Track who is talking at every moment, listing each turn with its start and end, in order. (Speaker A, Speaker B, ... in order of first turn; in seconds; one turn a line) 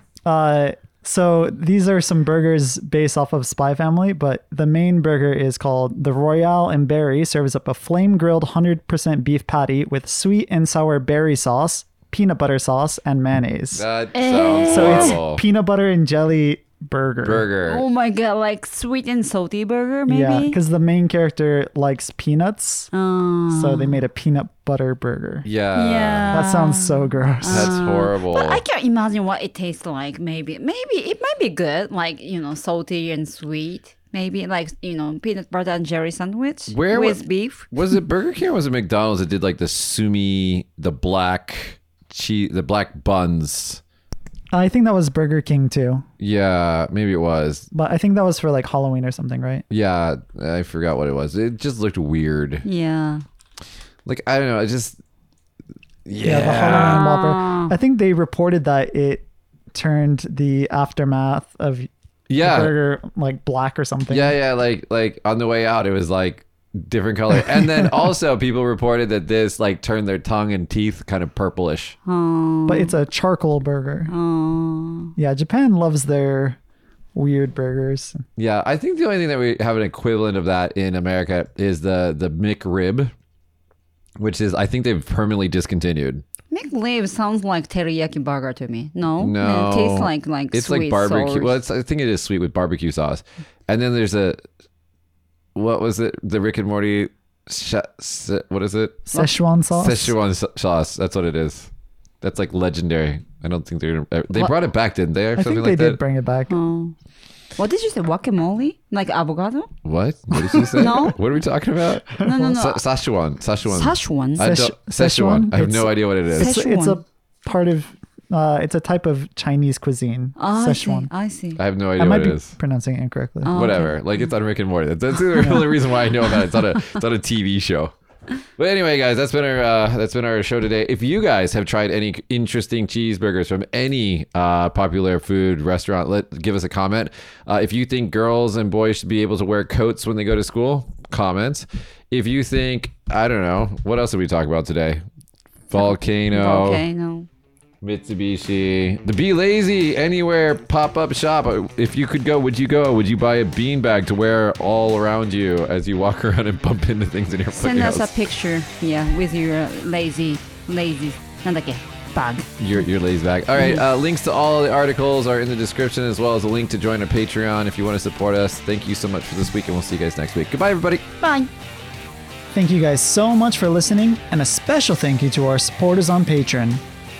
Speaker A: 0.2-13.8
Speaker B: 13.8-15.4
Speaker C: 14.1-15.2
Speaker A: 14.7-17.5
Speaker B: 17.2-17.8
Speaker C: 17.7-20.6
Speaker A: 20.1-22.9
Speaker C: 22.9-24.0
Speaker A: 23.5-25.5
Speaker B: 25.4-26.4
Speaker C: 25.8-37.7
Speaker A: 26.3-27.8
Speaker B: 27.5-28.6
Speaker B: 36.7-43.8
Speaker A: 44.5-46.0
Speaker B: 46.2-47.7
Speaker A: 47.7-49.6
Speaker B: 49.7-52.6
Speaker C: 52.6-53.2
Speaker B: 54.1-55.0
Speaker B: 56.1-57.0
Speaker A: 56.2-64.3
Speaker C: 56.5-57.8
Speaker B: 62.3-62.7
Speaker B: 64.1-72.0
Speaker C: 72.1-72.9
Speaker A: 72.7-74.1
Speaker C: 74.1-75.1
Speaker A: 75.2-76.6
Speaker A: 77.2-78.2
Speaker B: 78.4-83.1
Speaker B: 84.2-86.2
Speaker C: 86.5-91.5
Speaker B: 89.2-94.4
Speaker B: 95.5-99.0
Speaker A: 99.1-100.2
Speaker B: 99.7-101.7
Speaker B: 102.2-106.0
Speaker A: 105.4-106.6
Speaker C: 106.5-107.0
Speaker C: 107.6-109.7
Speaker B: 109.8-116.5
Speaker A: 110.5-110.9
Speaker C: 110.7-111.2
Speaker A: 112.1-112.6
Speaker C: 112.2-112.8
Speaker C: 113.7-114.5
Speaker A: 114.4-121.1
Speaker C: 116.3-117.0
Speaker C: 120.4-121.6
Speaker B: 121.6-122.5
Speaker A: 122.0-123.6
Speaker C: 123.4-124.0
Speaker B: 123.5-127.9
Speaker B: 128.6-145.0
Speaker B: 145.7-146.8
Speaker C: 145.8-147.3
Speaker B: 147.8-158.1
Speaker C: 157.5-162.5
Speaker B: 162.6-171.0
Speaker C: 163.6-163.8
Speaker C: 171.2-171.5
Speaker A: 172.5-176.8